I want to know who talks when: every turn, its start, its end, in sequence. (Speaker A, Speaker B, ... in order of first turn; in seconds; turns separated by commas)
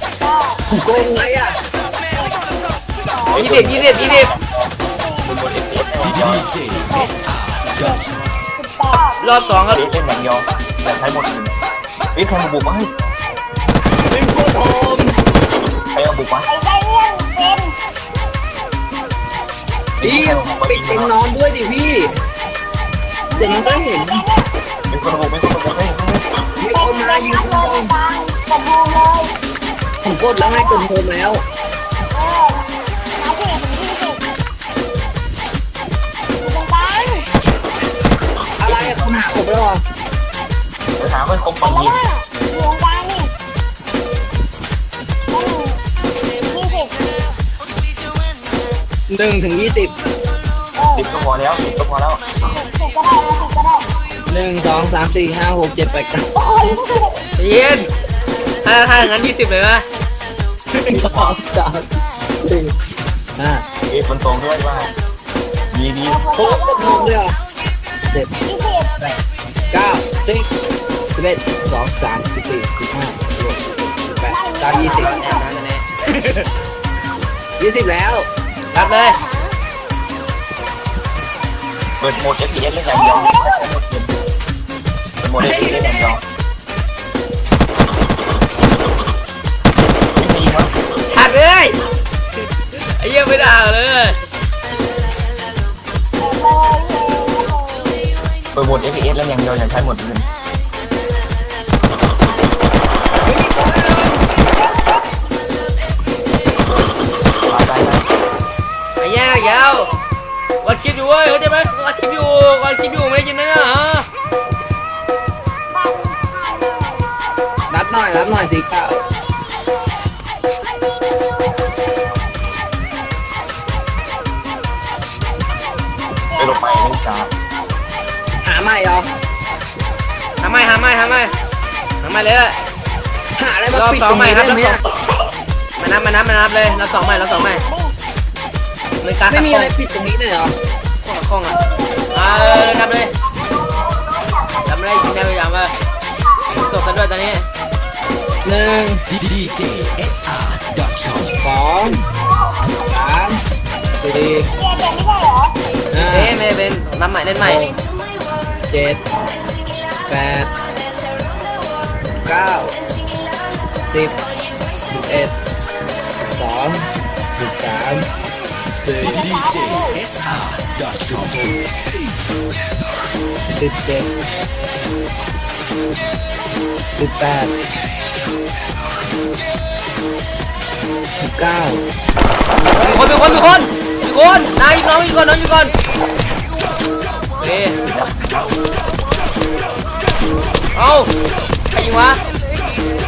Speaker A: 0.2-0.6, Speaker B: 0.7-1.6, Speaker A: 2.1-2.4, Speaker A: 3.0-4.3, Speaker C: 3.3-4.7, Speaker D: 3.4-4.3, Speaker A: 4.9-5.3, Speaker C: 5.2-6.6, Speaker A: 6.8-9.8, Speaker D: 9.2-9.8, Speaker C: 9.7-11.6, Speaker C: 12.2-12.9, Speaker B: 14.0-15.2, Speaker C: 15.9-16.5, Speaker A: 16.5-17.8, Speaker C: 20.0-21.2, Speaker B: 20.0-22.2, Speaker A: 23.3-24.5, Speaker B: 23.3-24.3, Speaker C: 24.9-26.4, Speaker B: 26.6-27.9, Speaker A: 26.7-29.4, Speaker B: 30.0-31.4, Speaker A: 30.3-30.9, Speaker A: 32.1-34.2, Speaker A: 36.4-37.3, Speaker B: 38.6-39.8, Speaker C: 38.6-39.1, Speaker C: 41.0-42.0, Speaker A: 41.6-43.3, Speaker A: 45.3-45.8, Speaker A: 46.4-47.0, Speaker B: 49.1-50.0, Speaker A: 50.8-51.1, Speaker C: 51.0-52.2, Speaker A: 52.5-53.9, Speaker B: 54.3-56.3, Speaker A: 56.4-57.2, Speaker D: 57.4-57.9, Speaker D: 58.6-59.9, Speaker B: 60.7-61.9, Speaker C: 60.9-61.4, Speaker B: 62.4-62.7, Speaker B: 63.4-63.6, Speaker C: 63.9-64.9, Speaker C: 65.7-66.2, Speaker A: 66.0-67.2, Speaker B: 66.3-67.3, Speaker A: 68.5-69.1, Speaker B: 69.7-70.5, Speaker B: 71.2-75.2, Speaker A: 74.3-75.5, Speaker D: 74.7-76.1, Speaker B: 77.6-78.3, Speaker D: 78.7-79.2, Speaker A: 78.8-79.6, Speaker C: 82.0-84.1, Speaker A: 82.9-83.7, Speaker C: 85.2-86.2, Speaker B: 85.4-86.2, Speaker C: 90.2-90.7, Speaker D: 91.1-91.8, Speaker D: 92.7-94.2, Speaker A: 96.2-98.1, Speaker C: 98.5-100.3, Speaker B: 103.2-104.3, Speaker A: 104.4-105.1, Speaker C: 107.4-108.1, Speaker D: 109.0-109.9, Speaker A: 109.2-110.0, Speaker D: 110.6-114.1, Speaker A: 115.7-117.2, Speaker B: 117.7-119.0, Speaker A: 126.3-127.0, Speaker C: 126.4-127.3, Speaker B: 128.4-129.1, Speaker D: 130.4-131.3, Speaker D: 132.0-132.6, Speaker B: 133.4-134.8, Speaker D: 133.7-134.8, Speaker D: 135.8-137.7, Speaker A: 136.7-138.0, Speaker D: 139.0-139.7, Speaker B: 139.3-140.6, Speaker D: 141.0-141.6, Speaker A: 141.7-142.8, Speaker D: 142.1-143.1, Speaker D: 144.7-145.7, Speaker D: 146.5-147.5, Speaker B: 148.4-149.1, Speaker E: 149.4-151.2, Speaker B: 151.3-152.0, Speaker B: 152.8-153.4, Speaker B: 154.0-154.5, Speaker A: 154.6-155.6, Speaker B: 155.9-156.4, Speaker D: 156.0-157.7, Speaker B: 157.4-157.8, Speaker B: 158.7-159.0, Speaker B: 160.1-160.5, Speaker B: 162.2-162.7, Speaker B: 163.9-164.2, Speaker B: 164.9-165.5, Speaker B: 166.2-166.8, Speaker B: 167.4-168.1, Speaker B: 168.8-169.2, Speaker A: 169.0-170.1, Speaker E: 170.1-171.3, Speaker B: 173.6-174.1, Speaker B: 177.0-177.6, Speaker B: 181.2-181.8, Speaker B: 182.6-183.3, Speaker D: 182.8-185.8, Speaker D: 187.4-187.8, Speaker C: 187.9-188.3, Speaker D: 190.7-191.1, Speaker D: 191.7-192.2